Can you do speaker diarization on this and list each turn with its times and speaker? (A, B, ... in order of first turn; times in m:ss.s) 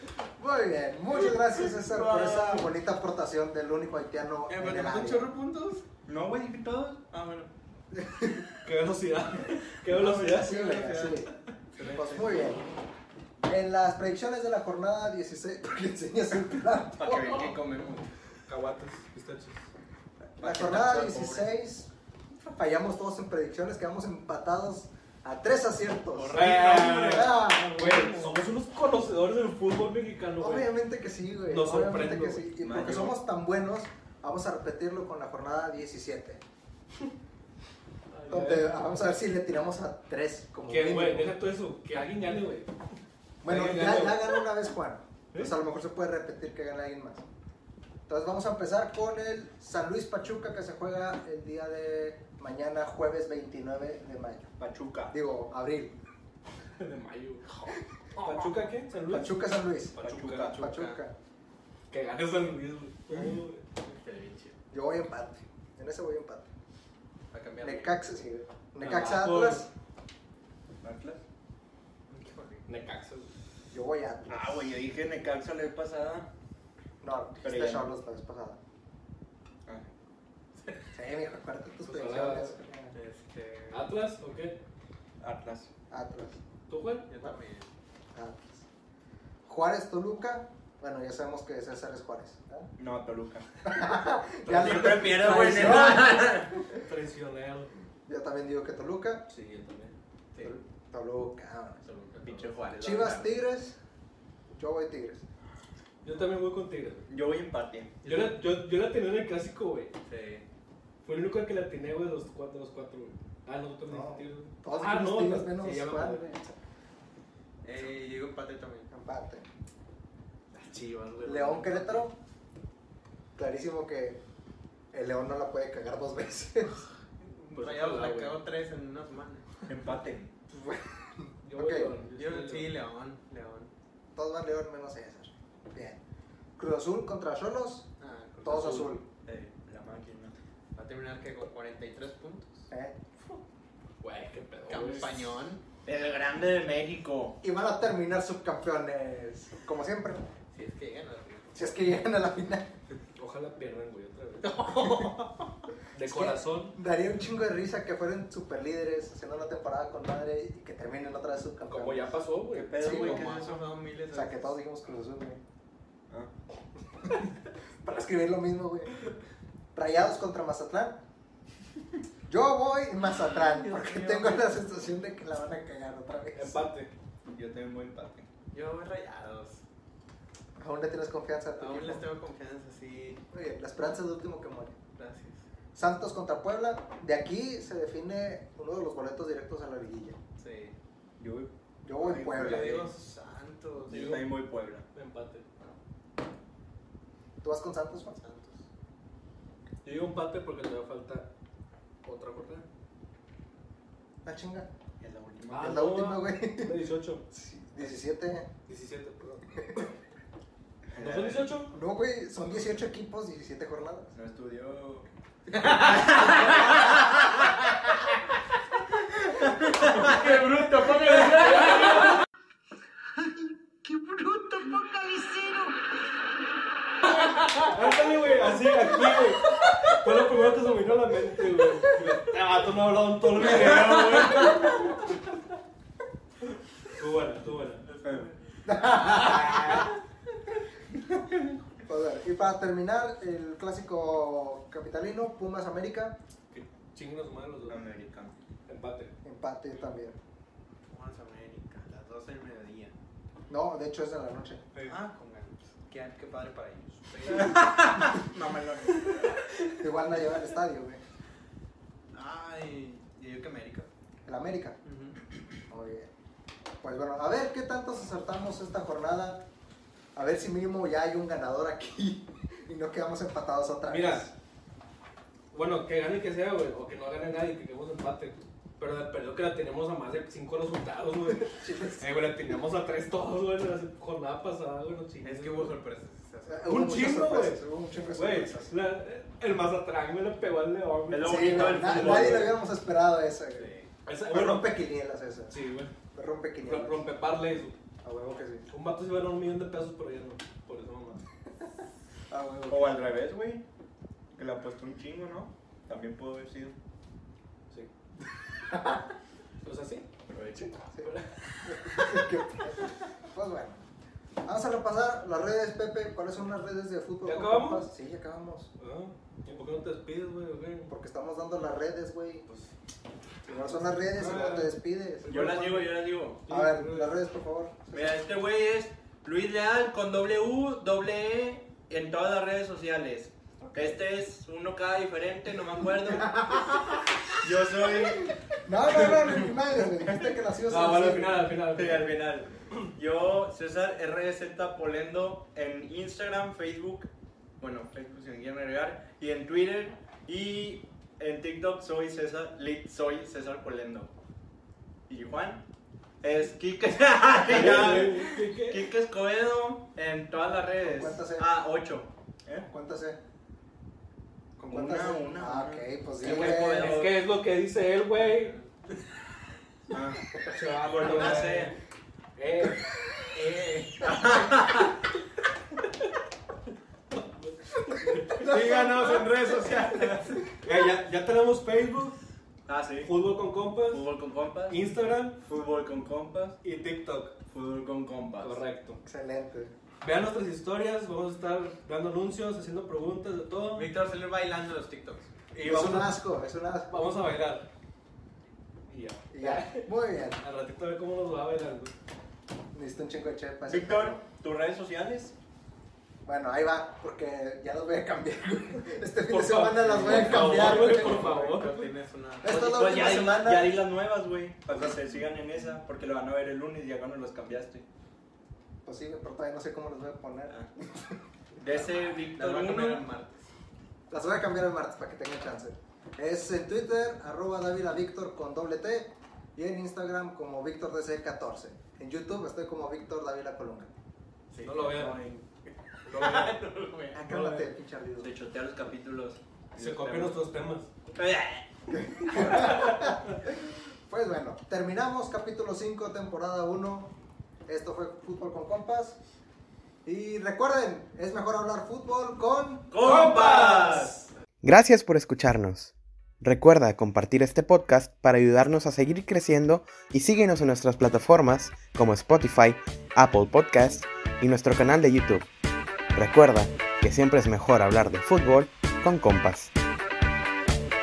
0:00.4-0:05.3 A
0:01.9-0:02.4 B
0:04.5-0:05.8 C
0:06.0-0:07.0 B
0:07.1-0:07.5 C
0:07.9-0:08.5 A
0:08.6-0:10.6 D
0:09.9-0:12.5 C
0:10.0-0:12.6 A
0:13.4-0:17.4 A
0:17.0-0:18.1 B
0:18.5-0:19.7 D
0:20.3-0:28.3 A
0:20.4-0:21.5 B
0:26.2-0:27.9 C
0:26.3-0:30.7 D
0:26.3-0:26.8 B
0:30.4-0:36.4 A
0:31.5-0:32.5 D
0:32.6-0:33.2 B
0:38.1-0:38.7 D
0:38.3-0:41.4 A
0:40.7-0:42.7 D
0:43.4-0:47.2 A
0:43.4-0:44.3 D
0:48.1-0:54.5 A
0:54.6-0:55.1 B
0:55.1-0:56.0 A
0:56.8-1:00.6 D
0:59.1-1:01.1 A
1:00.0-1:00.7 B
1:00.6-1:01.0 C
1:01.9-1:04.5 D
1:04.7-1:06.5 A
1:07.3-1:08.0 C
1:07.6-1:09.7 A
1:08.8-1:09.6 D
1:10.8-1:11.2 B
1:12.1-1:12.7 C
1:12.7-1:13.3 D
1:13.7-1:14.8 A
1:14.3-1:16.3 B
1:17.0-1:18.6 A
1:17.4-1:17.9 B
1:20.9-1:22.9 A
1:21.8-1:22.6 D
1:22.9-1:23.8 C
1:23.7-1:24.6 D
1:25.2-1:25.7 B
1:25.9-1:26.4 A
1:26.7-1:27.1 D
1:27.1-1:27.7 C
1:28.1-1:28.6 A
1:29.4-1:32.7 A
1:32.8-1:33.5 B
1:33.6-1:36.8 A
1:34.4-1:36.1 D
1:34.5-1:36.5 B
1:36.7-1:37.7 D
1:38.1-1:39.3 A
1:39.3-1:39.9 D
1:40.4-1:41.8 A
1:41.8-1:42.5 C
1:42.2-1:43.4 B
1:42.8-1:43.8 A
1:44.5-1:45.2 A
1:46.0-1:47.1 D
1:47.1-1:47.9 B
1:48.0-1:48.4 C
1:48.0-1:49.9 D
1:50.0-1:50.4 C
1:51.0-1:56.2 D
1:53.9-1:56.6 A
1:57.6-1:58.9 C
1:58.9-1:59.5 A
2:00.5-2:02.0 D
2:01.2-2:02.1 A
2:03.4-2:04.2 A
2:04.9-2:06.8 A
2:07.5-2:08.4 D
2:07.6-2:09.6 C
2:09.6-2:10.3 B
2:10.5-2:12.0 A
2:11.4-2:12.7 D
2:12.2-2:13.7 C
2:14.1-2:16.0 A
2:16.6-2:17.9 A
2:18.0-2:18.9 C
2:18.4-2:19.0 A
2:18.5-2:18.9 D
2:19.2-2:20.3 B
2:20.8-2:22.7 C
2:22.7-2:23.0 A
2:24.0-2:25.4 D
2:24.7-2:25.6 C
2:25.8-2:27.4 B
2:27.4-2:30.3 A
2:30.5-2:31.6 C
2:31.5-2:32.7 A
2:33.2-2:34.7 D
2:34.4-2:35.7 C
2:34.8-2:35.1 A
2:35.9-2:36.8 D
2:36.0-2:42.2 A
2:41.7-2:43.0 D
2:42.5-2:43.7 B
2:42.7-2:43.3 A
2:42.8-2:44.6 C
2:44.1-2:45.4 A
2:47.0-2:47.3 A
2:47.8-2:48.9 A
2:49.7-2:51.0 A
2:52.3-2:56.6 A
2:53.4-2:54.5 C
2:56.3-2:56.9 D
2:57.3-2:58.3 B
2:58.5-2:59.6 C
3:00.6-3:02.0 A
3:01.6-3:03.2 C
3:03.3-3:04.8 A
3:05.0-3:05.4 C
3:05.7-3:10.2 A
3:10.4-3:10.8 C
3:11.2-3:12.7 B
3:11.8-3:12.9 A
3:12.2-3:14.2 C
3:13.9-3:14.8 B
3:14.0-3:14.3 D
3:14.9-3:15.4 D
3:17.4-3:18.2 A
3:18.1-3:18.7 C
3:19.8-3:21.3 D
3:22.0-3:22.6 D
3:24.2-3:24.7 A
3:25.0-3:25.8 B
3:25.5-3:27.2 D
3:25.5-3:28.5 A
3:28.7-3:29.4 D
3:29.6-3:29.9 A
3:30.9-3:31.6 B
3:31.0-3:31.7 D
3:31.7-3:34.1 A
3:34.1-3:37.1 B
3:35.5-3:36.5 C
3:39.3-3:40.2 B
3:39.8-3:42.2 C
3:41.3-3:42.2 D
3:44.3-3:45.4 C
3:47.5-3:54.7 D
3:53.3-3:54.9 B
3:57.0-3:57.9 D
3:58.6-3:59.9 A
3:59.1-3:59.8 C
4:01.8-4:06.2 A
4:06.5-4:07.8 D
4:07.7-4:08.3 B
4:08.7-4:09.1 D
4:09.2-4:10.2 A
4:10.9-4:12.9 C
4:13.5-4:14.7 A
4:14.9-4:18.2 C
4:17.3-4:19.3 B
4:19.7-4:21.0 A
4:22.1-4:23.9 C
4:24.2-4:24.8 A
4:24.8-4:25.2 C
4:25.7-4:26.1 A
4:26.8-4:29.5 A
4:30.2-4:34.3 A
4:33.9-4:34.2 D
4:35.5-4:45.7 D
4:41.3-4:42.0 A
4:45.2-4:47.0 C
4:46.5-4:48.8 A
4:46.6-4:52.5 D
4:51.1-4:52.6 B
4:51.2-4:53.7 A
4:53.6-4:53.9 C
4:54.0-4:54.7 D
4:54.2-4:55.6 A
4:55.5-4:55.9 D
4:56.1-4:57.1 A
4:56.6-4:57.8 D
4:58.0-4:58.7 A
4:58.7-5:01.2 D
5:02.3-5:03.1 A
5:02.7-5:03.6 B
5:04.3-5:06.8 B
5:08.7-5:09.0 A
5:09.6-5:10.1 D
5:10.3-5:10.7 B
5:10.6-5:13.9 A
5:11.0-5:12.2 D
5:14.4-5:18.7 A
5:17.2-5:17.9 D
5:18.8-5:20.9 D
5:20.9-5:22.4 A
5:23.4-5:25.3 A
5:23.6-5:27.2 D
5:25.3-5:26.4 B
5:26.5-5:28.2 A
5:27.9-5:36.7 B
5:33.6-5:34.0 A
5:36.0-5:37.0 A
5:37.3-5:38.3 B
5:37.8-5:41.5 A
5:38.9-5:39.2 B
5:40.6-5:42.1 D
5:41.7-5:54.1 B
5:55.1-5:55.6 B
5:56.2-6:02.7 B
5:57.4-5:58.9 D
6:00.8-6:01.5 A
6:02.6-6:03.2 A
6:04.6-6:07.1 A
6:04.7-6:07.2 B
6:06.2-6:08.6 D
6:08.2-6:09.0 C
6:09.9-6:11.7 B
6:10.4-6:11.8 D
6:11.0-6:11.5 C
6:12.4-6:12.8 D
6:13.3-6:14.4 C
6:14.0-6:14.9 B
6:17.1-6:18.6 D
6:18.3-6:19.4 A
6:18.4-6:20.4 C
6:19.9-6:20.2 B
6:20.6-6:22.2 D
6:22.7-6:23.1 B
6:23.0-6:24.1 D
6:23.9-6:26.6 B
6:24.7-6:25.4 D
6:26.6-6:27.3 D
6:27.5-6:28.6 B
6:28.4-6:29.0 D
6:29.0-6:29.7 A
6:30.0-6:33.9 D
6:33.7-6:35.3 C
6:35.5-6:36.2 D
6:35.6-6:37.0 A
6:36.9-6:37.7 D
6:38.9-6:39.9 D
6:39.3-6:40.4 A
6:40.4-6:41.9 D
6:42.7-6:44.2 A
6:43.7-6:45.4 B
6:46.2-6:51.6 A
6:49.3-6:51.9 D
6:50.1-6:52.7 C
6:52.4-6:53.8 A
6:52.4-6:57.9 B
6:54.7-6:55.0 A
6:58.8-7:01.2 A
7:01.6-7:03.0 B
7:01.7-7:03.4 C
7:04.1-7:13.9 A
7:14.6-7:15.4 B
7:14.6-7:15.2 D
7:15.6-7:17.3 C
7:16.0-7:16.6 D
7:17.1-7:18.3 A
7:17.3-7:17.7 D
7:18.2-7:20.4 B
7:19.7-7:20.9 D
7:21.1-7:22.7 B
7:21.9-7:27.1 A
7:22.6-7:22.9 D
7:27.6-7:29.2 A
7:30.0-7:32.9 A
7:32.9-7:34.2 B
7:33.0-7:34.1 D
7:34.6-7:45.5 E
7:46.1-7:49.7 E